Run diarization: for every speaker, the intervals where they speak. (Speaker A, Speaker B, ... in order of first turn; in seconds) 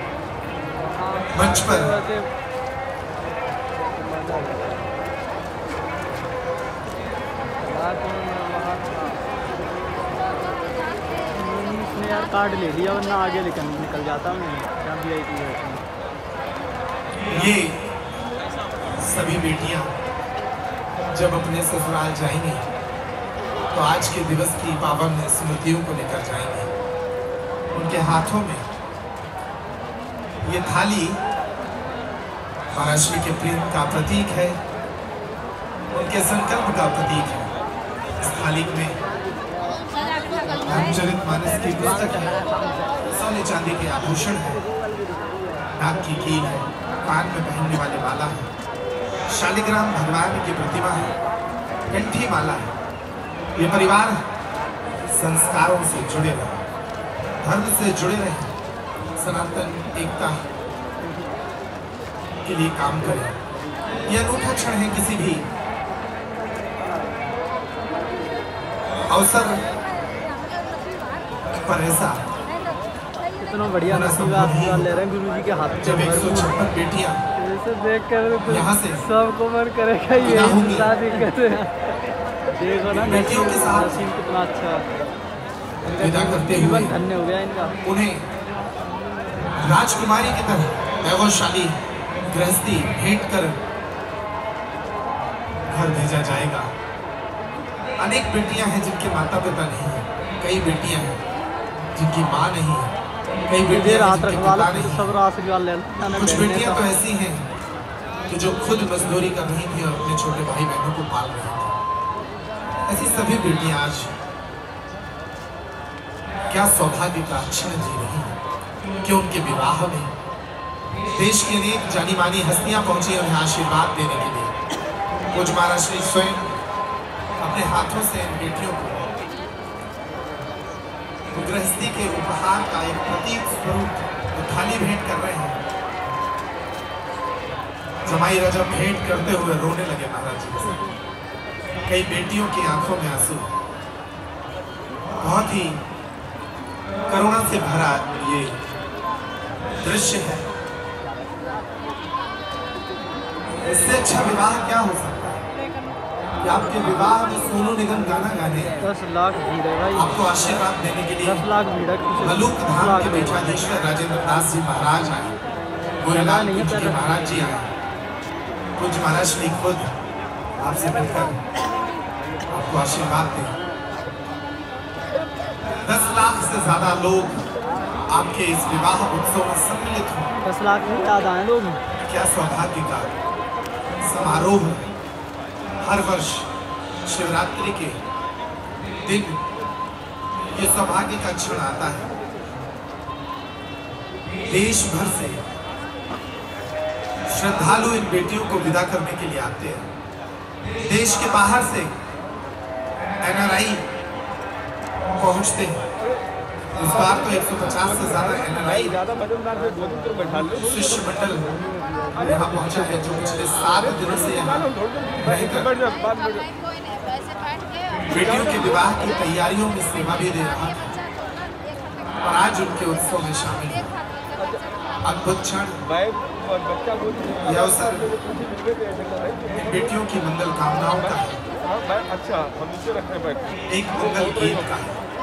Speaker A: 1.0-2.3, 4.1-4.8, 7.6-9.4, 10.2-10.6, 11.3-15.8, 73.4-76.5, 77.4-81.9, 82.5-84.8, 85.8-87.7, 103.7-106.9, 158.8-160.2, 161.2-163.6, 166.1-167.4, 180.4-181.8
Speaker B: 1.3-1.9, 17.3-17.8, 19.0-19.9, 21.1-22.6, 23.7-26.7, 27.7-28.6, 30.4-31.2, 32.7-34.6, 35.9-37.5, 38.2-39.0, 40.6-42.4, 43.1-44.6, 45.8-48.5, 49.3-51.1, 51.9-52.7, 53.5-54.2, 55.1-56.6, 57.4-58.5, 59.2-60.4, 62.4-63.4, 64.1-65.5, 69.1-69.6, 71.5-72.2, 73.9-74.9, 75.8-77.2, 78.5-79.0, 80.2-80.9, 82.9-84.0, 86.0-86.9, 87.8-88.2, 89.6-93.6, 95.7-96.7, 98.0-101.2, 101.9-102.9, 103.5-105.1, 106.1-107.4, 108.3-111.7, 112.9-114.1, 116.5-118.3, 119.0-120.1, 121.1-124.5, 125.3-126.5, 127.4-129.0, 131.3-135.6, 138.0-140.8, 141.9-143.5, 145.2-145.8, 147.1-148.6, 149.8-150.4, 153.7-155.4, 156.4-158.8, 159.9-161.4, 162.2-165.3, 166.0-167.7, 168.8-169.9, 170.6-171.4, 172.5-173.5, 175.8-177.4, 178.1-180.3, 182.1-183.1, 184.0-184.8, 185.8-186.5, 187.0-188.0, 189.0-189.4, 190.5-192.1, 194.5-195.4, 197.3-199.9, 200.8-201.9, 203.2-203.8, 205.1-205.8, 206.8-209.0, 210.6-211.6, 212.2-215.8, 218.1-220.9, 222.2-223.9, 225.0-225.8, 227.4-228.1, 229.5-231.4, 233.7-235.0
Speaker C: 209.2-210.5, 215.8-216.4, 232.2-233.3